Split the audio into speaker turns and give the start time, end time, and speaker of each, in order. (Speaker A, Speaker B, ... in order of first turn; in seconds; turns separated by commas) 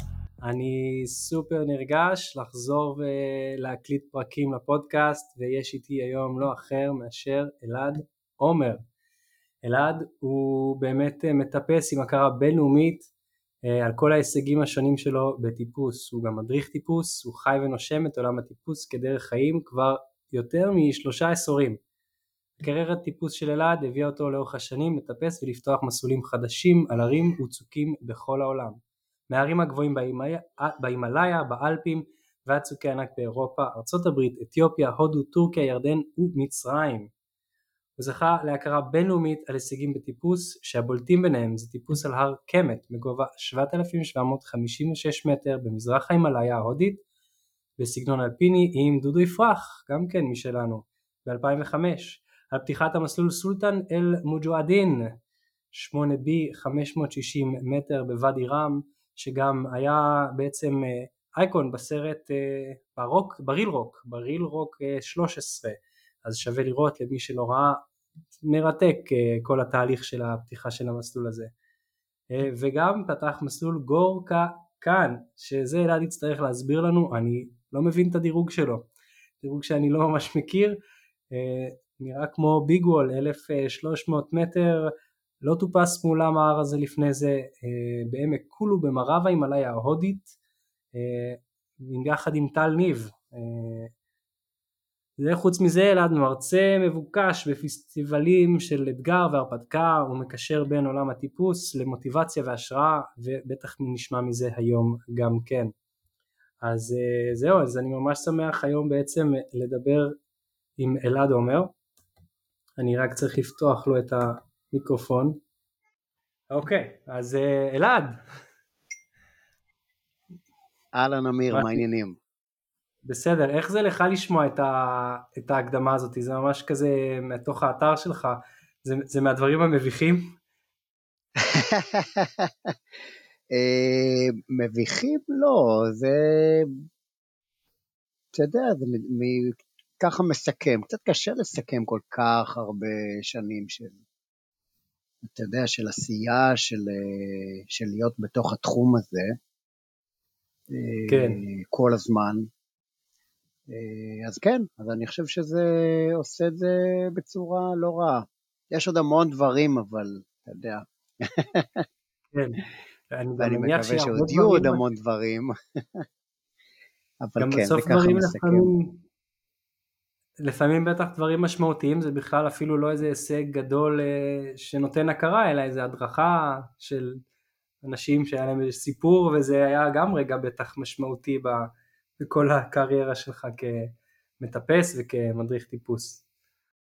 Speaker A: 0.4-8.8, Speaker A: 9.6-13.1, Speaker A: 13.7-21.8, Speaker A: 22.6-37.1, Speaker A: 38.0-47.0, Speaker A: 47.8-55.1, Speaker A: 55.7-67.8, Speaker A: 68.4-71.5, Speaker A: 72.3-78.9, Speaker A: 79.4-80.8, Speaker A: 81.3-90.3, Speaker A: 90.9-93.9, Speaker A: 95.2-105.7, Speaker A: 106.6-110.2, Speaker A: 110.8-111.7, Speaker A: 112.8-115.4, Speaker A: 116.5-118.2, Speaker B: 120.9-122.2, Speaker A: 121.5-121.8, Speaker A: 123.1-130.4, Speaker B: 131.4-132.7, Speaker B: 133.5-136.7, Speaker B: 138.3-144.0, Speaker B: 145.2-149.3, Speaker B: 150.7-152.4, Speaker A: 151.1-151.4, Speaker B: 153.7-161.9, Speaker A: 162.3-164.8, Speaker B: 163.4-166.0, Speaker B: 167.2-168.7, Speaker A: 167.4-169.0, Speaker A: 170.4-177.2, Speaker A: 177.8-181.7, Speaker A: 182.2-186.2